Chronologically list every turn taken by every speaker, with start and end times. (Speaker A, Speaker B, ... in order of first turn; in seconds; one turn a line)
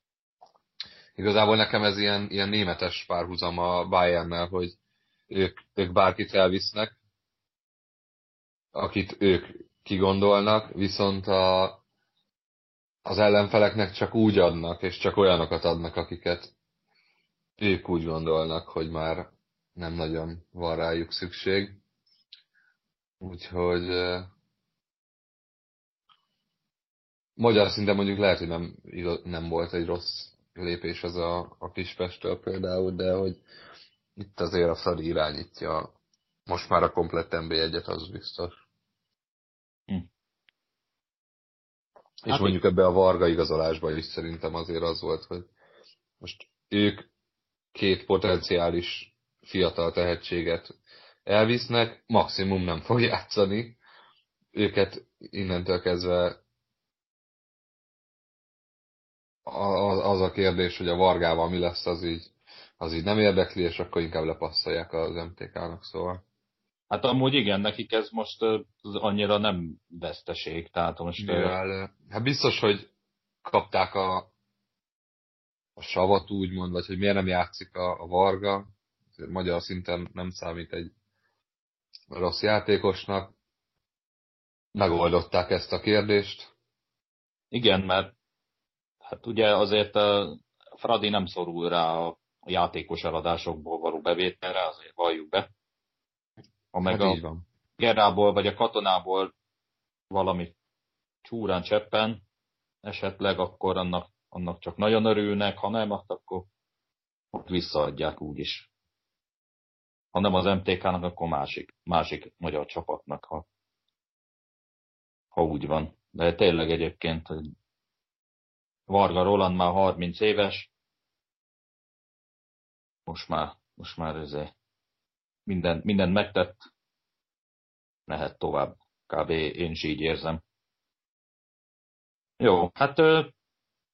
Speaker A: 1.2-4.8
Speaker A: 5.3-7.0
Speaker A: 8.7-11.8
Speaker A: 13.1-16.5
Speaker A: 17.6-21.8
Speaker A: 23.2-24.3
Speaker A: 27.4-33.4
Speaker A: 34.2-35.9
Speaker A: 36.5-38.6
Speaker A: 42.2-45.5
Speaker B: 42.3-42.6
Speaker A: 46.2-47.1
Speaker A: 47.7-50.7
Speaker A: 51.3-53.8
Speaker A: 54.5-56.4
Speaker A: 59.5-66.2
Speaker B: 66.9-71.6
Speaker A: 71.2-72.9
Speaker A: 73.5-74.3
Speaker A: 75.8-80.9
Speaker A: 82.1-83.3
Speaker A: 84.8-86.5
Speaker B: 87.5-88.1
Speaker B: 89.1-95.5
Speaker B: 96.7-97.2
Speaker A: 96.9-97.5
Speaker B: 97.8-99.3
Speaker B: 100.1-100.5
Speaker B: 101.2-102.2
Speaker B: 102.8-106.5
Speaker B: 107.3-108.7
Speaker B: 110.1-113.5
Speaker B: 115.3-117.3
Speaker B: 118.9-120.7
Speaker B: 123.1-124.5
Speaker B: 125.5-126.6
Speaker B: 128.1-130.4
Speaker B: 132.4-133.3